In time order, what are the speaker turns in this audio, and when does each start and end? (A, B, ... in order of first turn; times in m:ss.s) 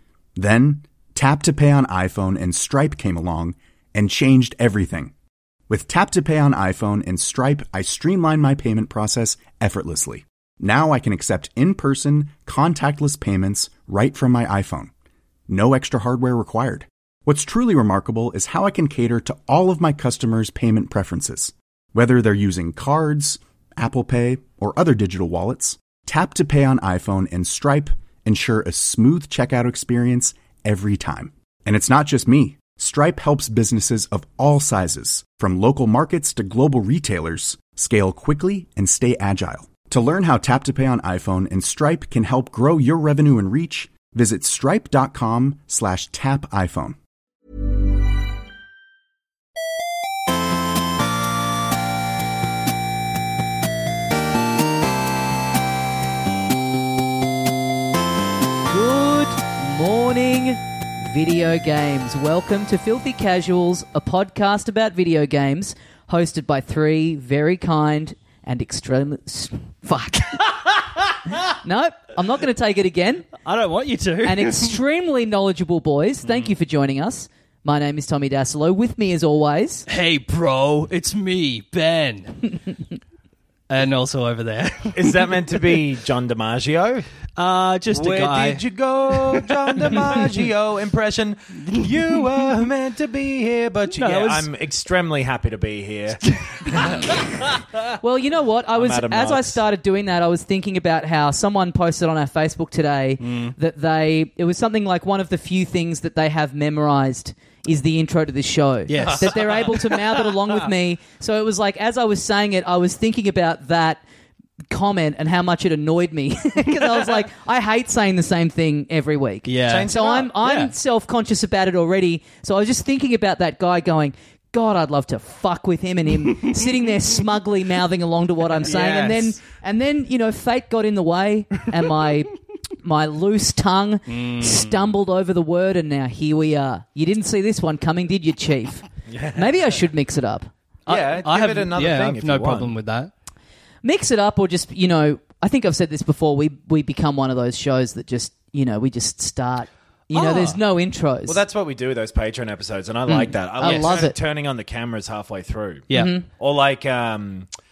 0:00.4-0:05.1 A
0:05.7-0:14.9 A
0:15.5-0:47.0 A
0:58.7-1:10.6 B
1:11.3-1:13.3 B
1:13.4-1:14.8 C
1:14.2-1:19.9 B
1:19.9-1:22.5 C
1:23.7-1:25.8 C
1:25.0-1:27.1 D
1:27.4-1:30.4 C
1:27.9-1:37.8 D
1:33.9-1:34.5 C
1:36.3-1:37.0 C
1:36.7-1:54.0 B
1:38.7-1:39.6 D
1:43.2-1:43.6 C
1:48.9-1:49.4 C
1:49.0-1:49.8 D
1:54.7-2:20.5 B
1:59.5-2:00.7 C
1:59.6-2:00.3 D
2:08.6-2:09.3 D
2:08.7-2:09.1 C
2:14.1-2:14.9 C
2:19.1-2:19.6 D
2:20.9-2:23.1 C
2:20.9-2:22.7 D
2:23.8-2:31.4 B
2:30.1-2:30.6 C
2:31.3-2:37.5 D
2:33.1-2:34.2 B
2:33.6-2:34.0 C
2:35.9-2:36.2 C
2:35.9-2:36.2 B